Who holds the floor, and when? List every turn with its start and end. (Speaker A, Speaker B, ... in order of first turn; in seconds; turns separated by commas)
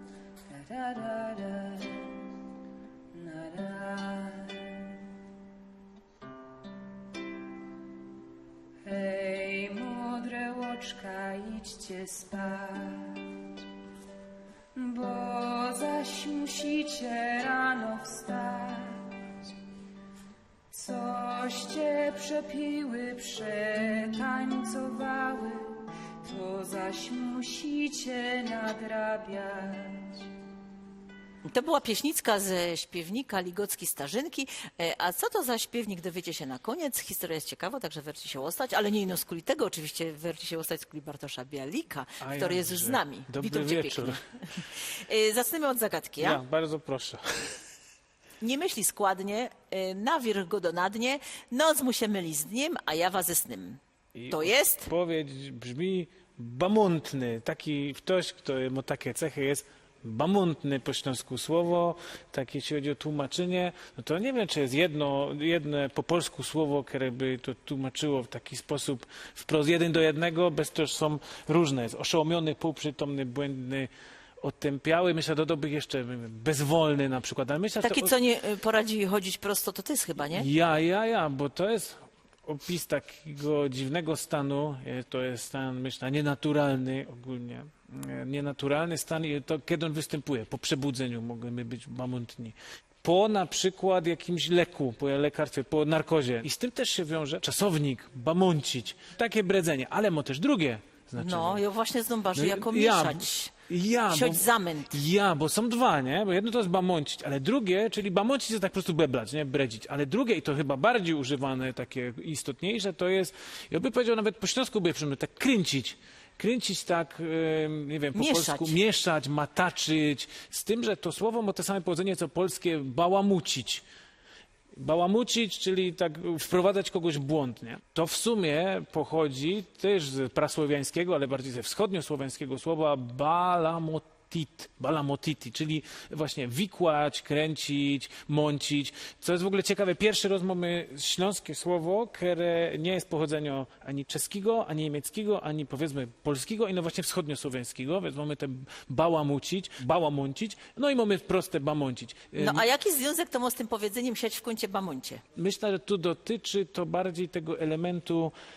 Speaker A: 0.5-2.2, Speaker A: 3.1-4.8, Speaker A: 8.8-13.2, Speaker A: 14.7-19.0, Speaker A: 20.7-30.2, Speaker B: 31.4-44.2, Speaker C: 42.2-44.2, Speaker B: 45.0-46.4, Speaker C: 46.2-47.6, Speaker B: 48.4-53.8, Speaker C: 54.1-73.9, Speaker B: 54.3-54.9, Speaker C: 74.4-78.1, Speaker B: 77.8-80.5, Speaker C: 80.3-101.6, Speaker B: 101.2-103.5, Speaker C: 102.3-123.8, Speaker B: 104.1-104.9, Speaker B: 118.1-118.7, Speaker C: 124.7-152.7, Speaker B: 152.4-155.2, Speaker C: 155.3-158.3